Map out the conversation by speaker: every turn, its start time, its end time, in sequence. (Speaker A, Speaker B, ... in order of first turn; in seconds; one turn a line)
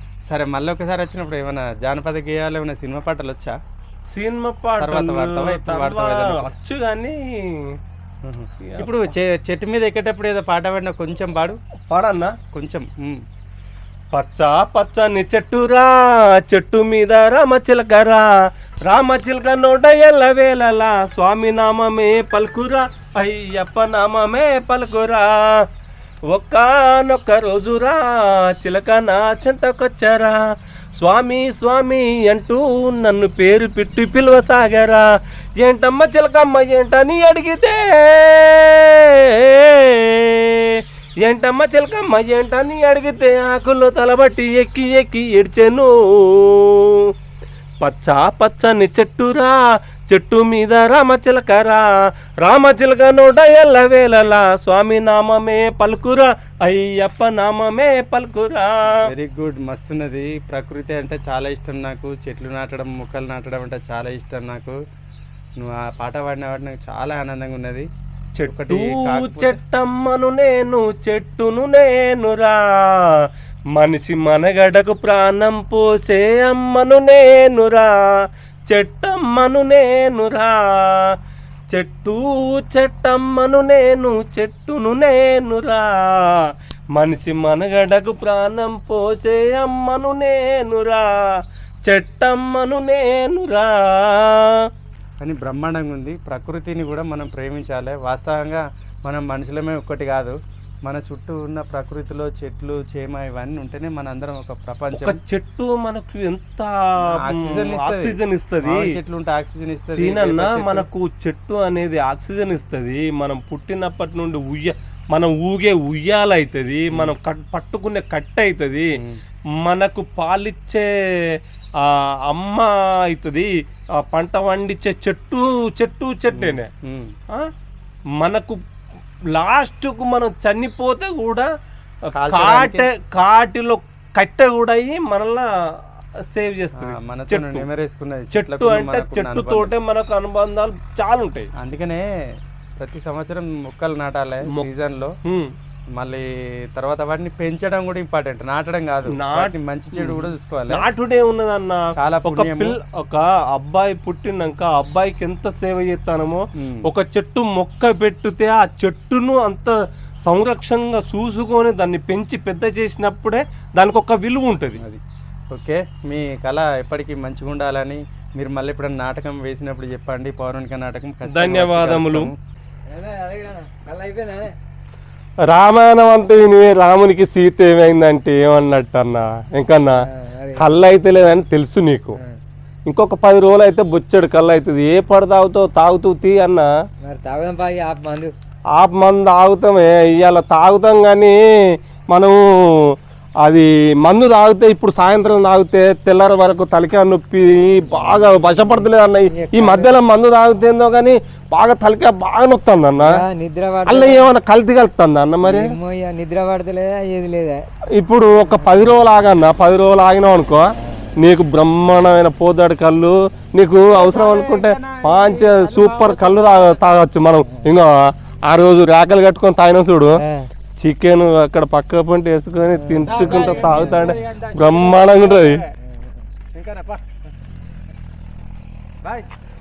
Speaker A: 0.2-3.6
Speaker B: 4.1-7.8
Speaker A: 4.8-6.5
Speaker A: 8.2-11.6
Speaker B: 8.6-8.9
Speaker B: 11.9-12.3
Speaker A: 12.5-13.2
Speaker B: 14.1-18.3
Speaker B: 18.9-25.6
Speaker B: 26.3-30.4
Speaker B: 30.9-35.0
Speaker B: 35.6-47.1
Speaker B: 47.8-51.9
Speaker B: 52.4-59.0
Speaker A: 59.0-64.8
Speaker A: 65.6-67.9
Speaker B: 68.3-73.0
Speaker A: 68.5-69.6
Speaker B: 73.8-81.1
Speaker B: 81.7-86.4
Speaker B: 87.0-91.1
Speaker B: 91.8-94.6
Speaker A: 95.2-105.2
Speaker B: 104.9-108.8
Speaker A: 107.1-110.9
Speaker B: 109.9-118.9
Speaker B: 119.6-120.9
Speaker B: 121.8-123.5
Speaker B: 124.0-126.7
Speaker A: 126.3-127.1
Speaker B: 128.2-128.6
Speaker B: 129.3-131.5
Speaker A: 132.1-132.9
Speaker B: 132.2-135.4
Speaker B: 136.3-137.7
Speaker A: 136.8-139.7
Speaker B: 138.3-141.5
Speaker A: 141.6-142.1
Speaker A: 142.8-145.1
Speaker B: 145.2-145.5
Speaker A: 145.9-150.8
Speaker B: 149.1-159.7
Speaker A: 152.0-152.8
Speaker A: 156.6-156.9
Speaker B: 160.2-164.8
Speaker A: 164.8-172.3
Speaker B: 171.2-172.3
Speaker C: 172.9-174.5
Speaker B: 175.4-180.0
Speaker C: 180.1-180.8
Speaker B: 180.6-182.2
Speaker B: 182.9-186.7
Speaker C: 187.0-188.3
Speaker B: 188.8-191.4
Speaker B: 192.1-203.2
Speaker C: 197.9-199.9
Speaker C: 202.9-204.3
Speaker B: 203.8-205.7
Speaker C: 205.4-207.6
Speaker B: 208.0-217.9
Speaker A: 213.9-217.0
Speaker B: 218.4-220.2
Speaker C: 220.2-220.5
Speaker B: 220.8-225.6
Speaker C: 222.7-224.2
Speaker A: 223.0-225.7
Speaker C: 225.9-226.2
Speaker A: 226.5-227.0
Speaker A: 229.0-229.3